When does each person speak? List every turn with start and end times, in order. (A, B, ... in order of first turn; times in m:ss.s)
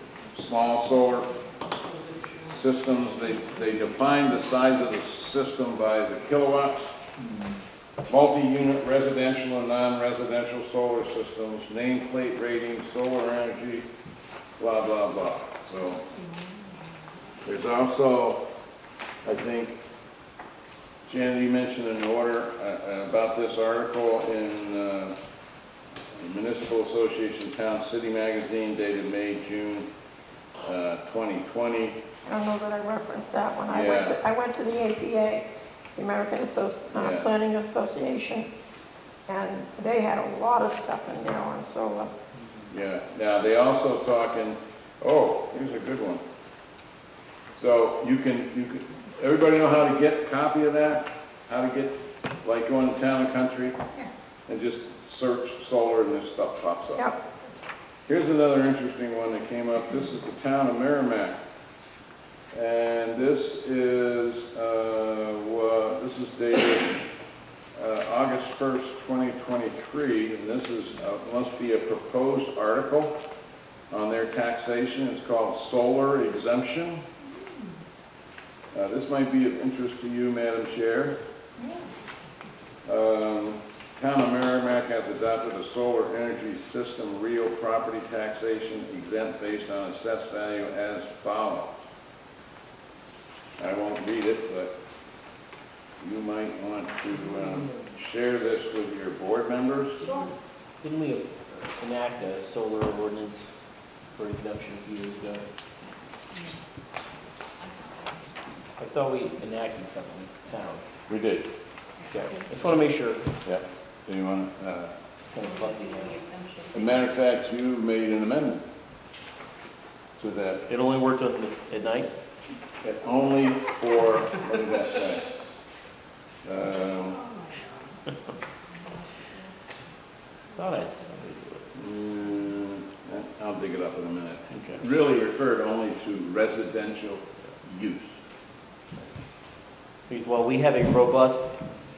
0:00.3-0:01.3 A
0:02.4-0:07.0 A
0:08.1-0:13.9 A
0:14.6-0:16.0 A
0:16.2-0:16.6 B
0:17.4-0:18.5 A
0:19.2-0:19.8 A
0:21.1-0:25.2 A
0:26.1-0:29.9 A
0:30.6-0:32.0 A
0:32.3-0:38.5 C
0:33.7-0:34.2 A
0:37.0-0:37.3 A
0:39.3-0:42.1 C
0:42.7-0:46.2 A
0:47.6-0:53.8 A
0:54.5-0:57.1 A
0:58.1-1:01.4 A
1:02.5-1:07.0 A
1:07.8-1:13.2 A
1:13.9-1:17.0 A
1:17.3-1:17.7 B
1:18.7-1:21.2 A
1:21.6-1:21.9 B
1:22.9-1:31.9 A
1:33.6-1:34.7 A
1:36.0-1:40.1 A
1:40.0-1:40.3 B
1:40.8-1:43.5 D
1:44.1-1:45.4 D
1:48.8-1:50.8 D
1:51.1-1:51.5 A
1:52.0-1:52.5 B
1:52.1-1:53.3 D
1:53.4-1:54.9 A
1:55.3-1:56.2 D
1:55.4-1:56.8 B
1:56.7-1:58.6 A
2:00.2-2:00.7 A
2:00.7-2:02.1 D
2:02.8-2:05.4 A
2:06.4-2:07.2 A
2:07.1-2:07.9 B
2:10.5-2:11.7 D
2:11.7-2:18.2 A
2:14.5-2:14.8 D
2:20.1-2:21.6 D